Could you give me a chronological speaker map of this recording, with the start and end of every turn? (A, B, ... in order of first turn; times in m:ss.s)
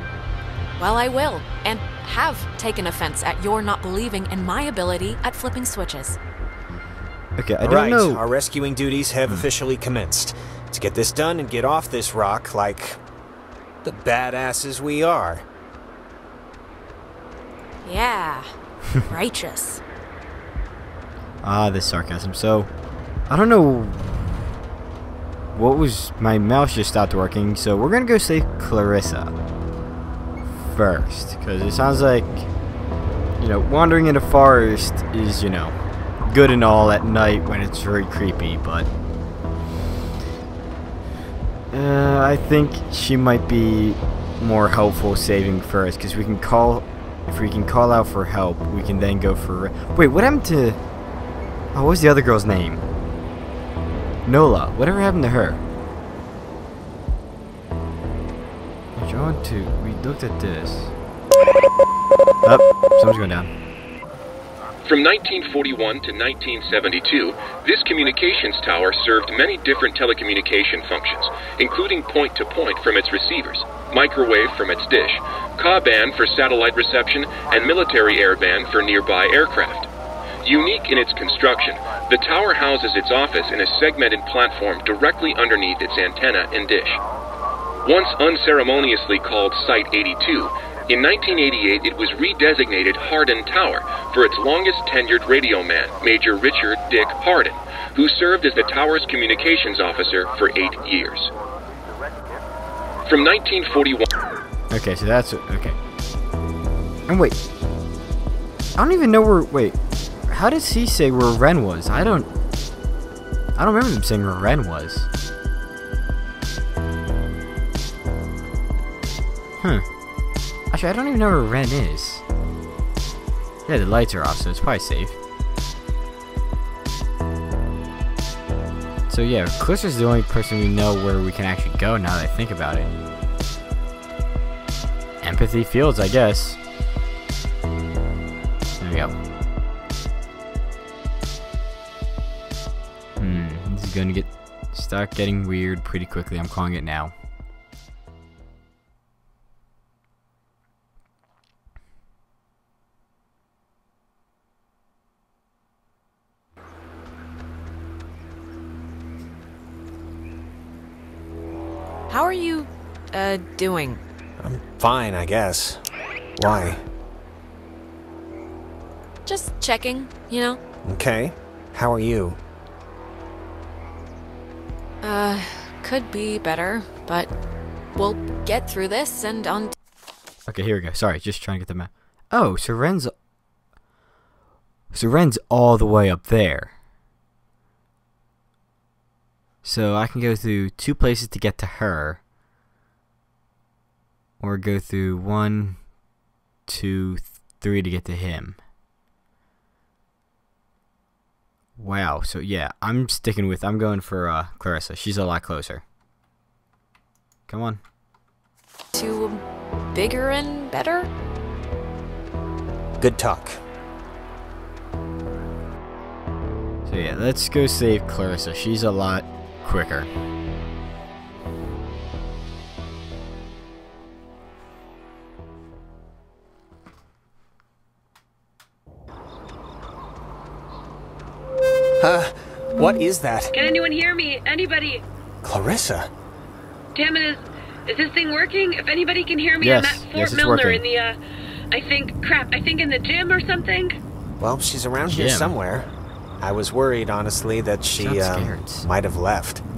0:00.8-0:06.2 A
0:07.4-0:08.2 B
0:07.6-0:13.0 C
0:13.8-0:15.5 C
0:17.8-0:18.5 A
0:19.0-0:19.8 A
0:21.4-0:22.7 B
0:23.3-0:24.5 B
0:25.5-0:29.3 B
0:30.5-0:32.5 B
0:33.4-0:38.9 B
0:41.7-0:50.8 B
0:51.7-0:52.8 B
0:54.2-0:55.6 B
0:59.0-1:00.9 B
1:02.4-1:03.5 B
1:04.8-1:19.9 D
1:20.4-1:27.0 D
1:27.8-1:41.3 D
1:43.1-1:44.1 D
1:44.7-1:45.8 B
1:47.1-1:47.4 B
1:48.8-1:52.3 B
1:53.6-1:55.1 B
2:00.7-2:02.2 B
2:03.7-2:05.2 B
2:09.1-2:12.9 B
2:15.2-2:16.6 B
2:18.8-2:19.2 B
2:23.2-2:27.1 B
2:42.1-2:44.0 A
2:44.4-2:45.8 C
2:46.4-2:46.8 C
2:49.2-2:50.6 A
2:50.8-2:52.4 C
2:55.0-2:57.3 A
2:58.0-2:59.7 A
3:00.5-3:03.1 B
3:04.9-3:06.7 B
3:09.6-3:12.2 B
3:14.4-3:15.8 B
3:16.7-3:18.6 B
3:21.8-3:25.8 B
3:27.5-3:27.8 B
3:29.0-3:31.1 A
3:33.0-3:33.6 C
3:36.9-3:40.1 B
3:52.0-3:53.5 C
3:53.5-3:55.0 E
3:55.4-3:56.1 C
3:57.0-4:01.2 E
3:59.6-4:00.8 B
4:01.7-4:04.0 E
4:04.4-4:09.6 C
4:05.1-4:05.6 B
4:08.0-4:08.9 B